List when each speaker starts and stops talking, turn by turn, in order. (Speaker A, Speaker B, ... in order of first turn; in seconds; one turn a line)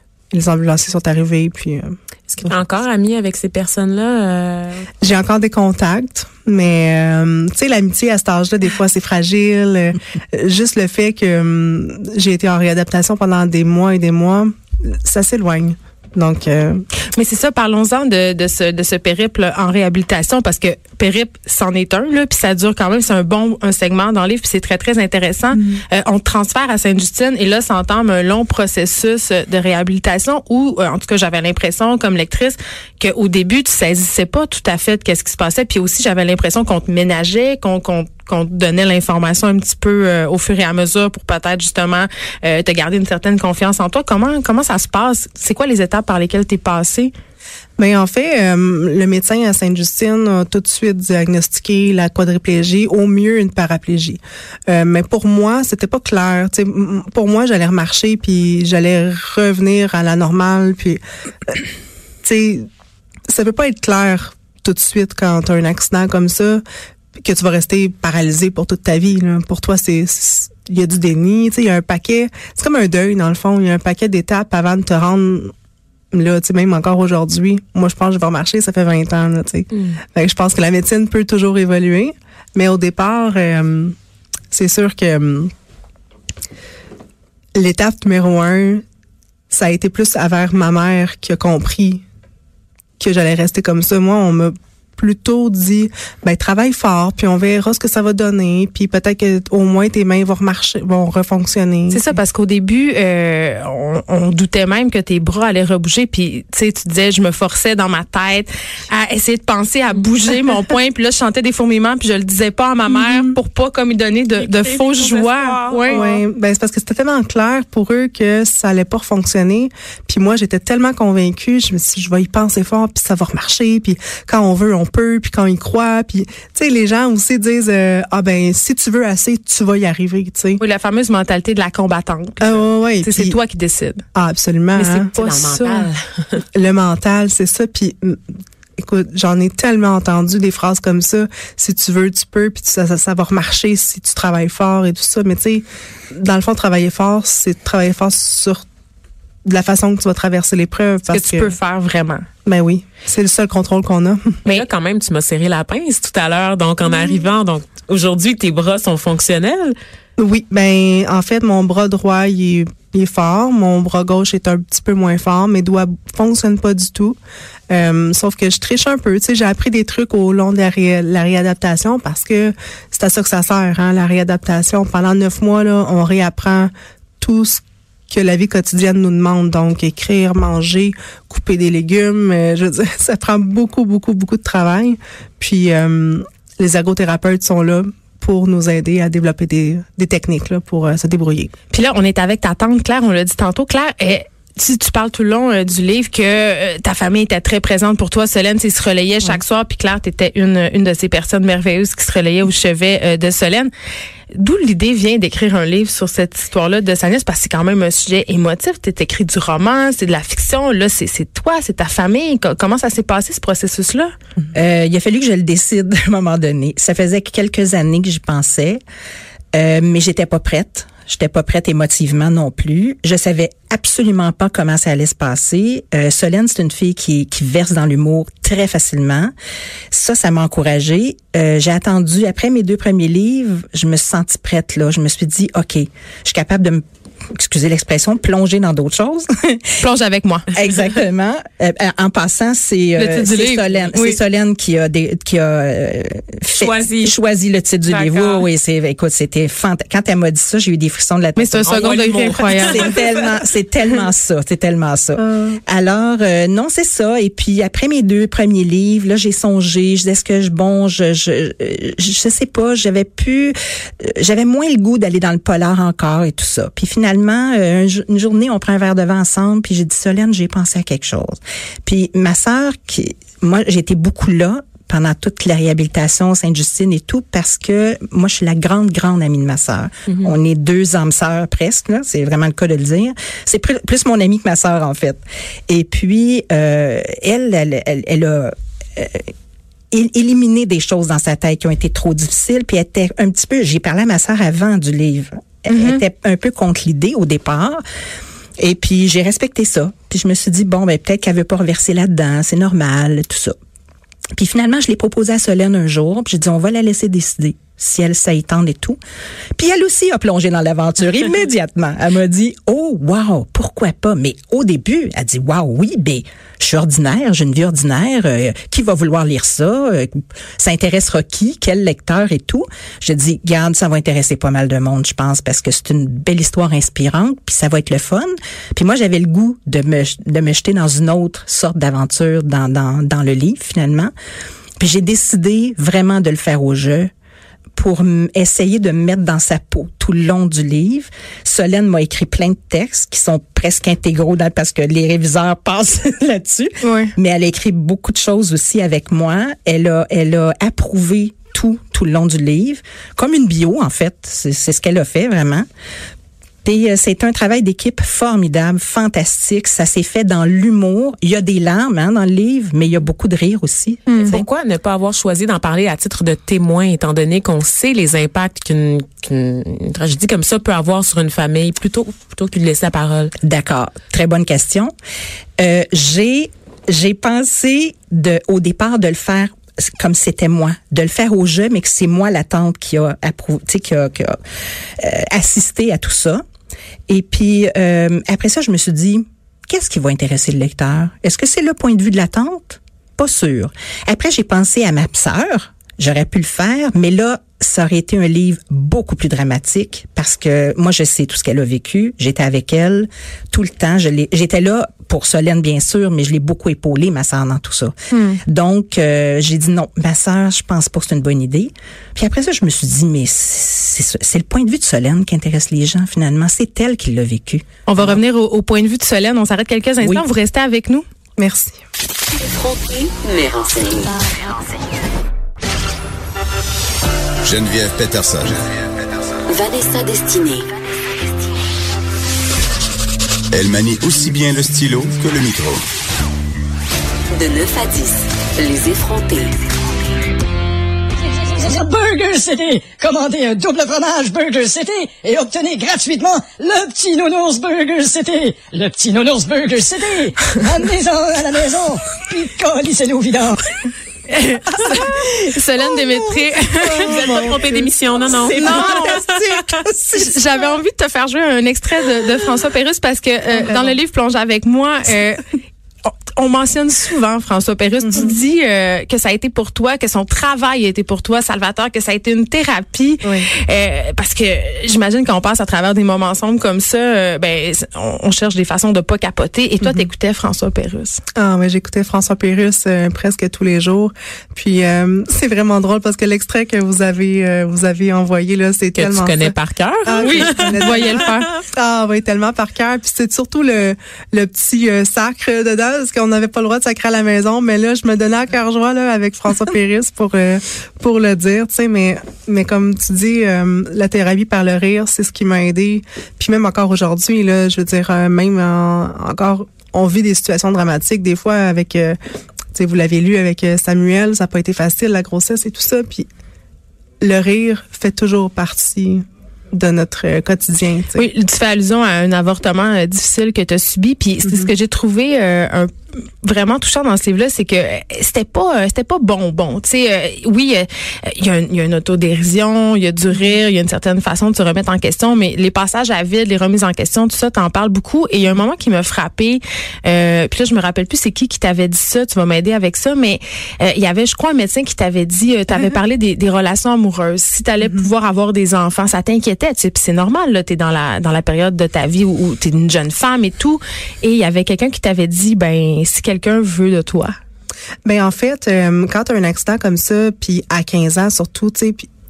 Speaker A: 0.3-2.6
Speaker B: 2.3-4.9
Speaker A: 5.0-16.9
Speaker C: 17.1-47.1
Speaker A: 47.8-61.6
Speaker A: 62.2-62.7
Speaker A: 63.3-66.6
Speaker A: 67.2-75.5
Speaker A: 76.1-84.0
Speaker A: 84.5-85.5
Speaker A: 87.5-88.8
Speaker A: 89.5-92.0
Speaker A: 93.0-102.2
Speaker C: 101.9-116.0
Speaker A: 112.9-113.4
Speaker B: 114.4-116.2
Speaker A: 115.9-130.6
Speaker C: 130.6-134.0
Speaker A: 132.4-133.4
Speaker A: 134.2-135.1
Speaker C: 134.8-135.9
Speaker B: 135.2-136.4
Speaker A: 136.5-138.2
Speaker A: 138.8-148.6
Speaker A: 149.4-151.5
Speaker C: 151.1-152.3
Speaker A: 152.4-154.4
Speaker B: 154.5-159.8
Speaker A: 156.8-157.2
Speaker A: 160.2-167.2
Speaker A: 167.7-191.5
Speaker C: 191.7-203.7
Speaker C: 204.3-214.1
Speaker D: 214.5-218.8
Speaker D: 219.5-229.3
Speaker D: 229.9-239.8
Speaker C: 239.8-240.5
Speaker D: 240.5-289.3
Speaker C: 243.0-244.2
Speaker B: 246.6-247.2
Speaker B: 247.9-248.5
Speaker C: 251.4-252.9
Speaker B: 251.7-253.3
Speaker A: 255.2-255.6
Speaker B: 280.1-280.3
Speaker D: 289.9-297.8
Speaker C: 295.7-296.0
Speaker D: 298.6-303.6
Speaker D: 304.3-309.0
Speaker D: 309.5-334.1
Speaker D: 334.8-337.1
Speaker D: 337.7-355.7
Speaker C: 346.8-347.1
Speaker D: 356.6-364.5
Speaker B: 364.2-373.3
Speaker D: 373.4-374.9
Speaker D: 375.6-384.4
Speaker D: 385.0-386.4
Speaker D: 387.1-418.2
Speaker C: 408.1-408.4
Speaker C: 417.9-421.1
Speaker A: 421.4-421.8
Speaker E: 422.4-424.2
Speaker F: 427.4-428.6
Speaker E: 429.5-430.7
Speaker F: 433.5-435.8
Speaker E: 437.3-439.5
Speaker G: 441.2-453.6
Speaker C: 454.3-457.4
Speaker A: 454.8-455.1
Speaker A: 456.8-460.7
Speaker B: 457.0-459.4
Speaker C: 458.5-459.2
Speaker C: 460.1-465.5
Speaker A: 463.5-464.0
Speaker C: 466.1-481.2
Speaker A: 468.0-468.4
Speaker A: 479.8-480.1
Speaker A: 481.4-489.5
Speaker B: 489.0-491.6
Speaker A: 490.1-512.2
Speaker C: 490.2-491.5
Speaker A: 512.8-516.3
Speaker A: 517.2-521.3
Speaker C: 521.1-557.3
Speaker A: 524.4-524.7
Speaker A: 558.0-562.1